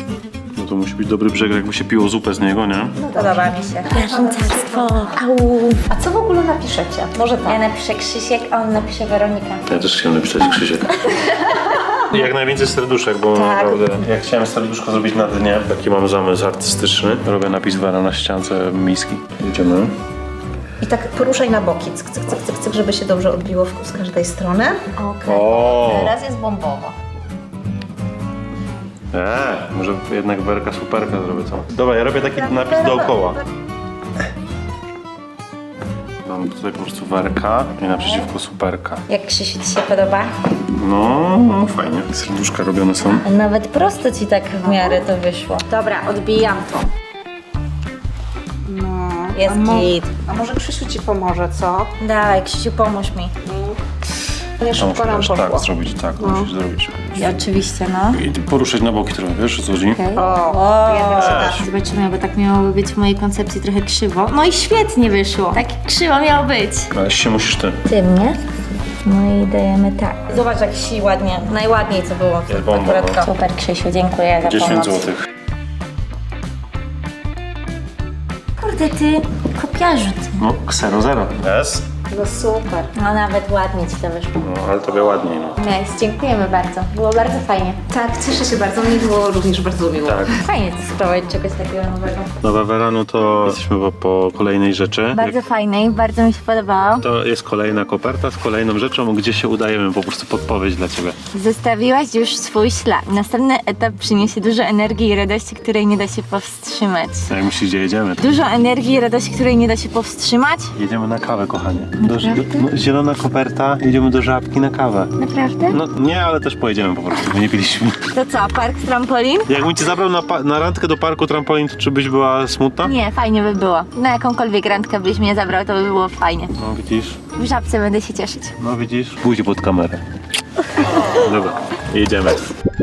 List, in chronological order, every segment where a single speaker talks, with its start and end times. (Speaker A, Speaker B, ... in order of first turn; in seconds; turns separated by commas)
Speaker A: 0.6-3.0, Speaker B: 3.0-5.2, Speaker C: 3.1-5.8, Speaker B: 5.9-7.6, Speaker C: 7.4-9.7, Speaker A: 9.7-11.0, Speaker C: 11.1-11.8, Speaker A: 12.1-19.9, Speaker B: 13.3-13.9, Speaker B: 20.8-26.9, Speaker A: 25.2-26.1, Speaker A: 29.1-33.4, Speaker B: 32.4-33.4, Speaker A: 36.2-39.0, Speaker C: 39.1-40.3, Speaker A: 40.7-43.2, Speaker C: 43.2-46.9, Speaker B: 44.6-45.0, Speaker B: 48.6-52.0, Speaker C: 49.3-50.0, Speaker C: 52.0-53.3, Speaker B: 53.4-53.8, Speaker B: 54.6-56.5, Speaker A: 54.7-57.2, Speaker C: 57.1-58.2, Speaker A: 58.1-60.0, Speaker C: 59.9-66.9, Speaker B: 60.1-61.6, Speaker A: 61.2-61.6, Speaker A: 66.9-67.8, Speaker C: 67.8-68.4, Speaker C: 69.0-75.1, Speaker A: 72.5-73.2, Speaker A: 74.4-75.2, Speaker C: 78.6-80.4, Speaker A: 80.4-81.8, Speaker B: 82.1-82.9, Speaker C: 83.0-84.4, Speaker A: 84.4-85.6, Speaker C: 85.6-87.8, Speaker B: 87.9-90.4, Speaker A: 90.0-90.3, Speaker C: 90.3-92.3, Speaker A: 92.4-95.4, Speaker C: 95.1-97.0, Speaker A: 97.0-101.2, Speaker C: 101.3-107.3, Speaker A: 107.3-108.2, Speaker C: 108.2-110.7, Speaker A: 110.7-115.1, Speaker C: 112.0-112.6, Speaker C: 115.2-115.8, Speaker A: 115.7-118.1, Speaker C: 118.1-119.5, Speaker A: 119.5-122.9, Speaker C: 122.8-126.5, Speaker A: 126.5-127.2, Speaker C: 127.3-128.5, Speaker A: 128.6-130.0, Speaker A: 130.9-132.4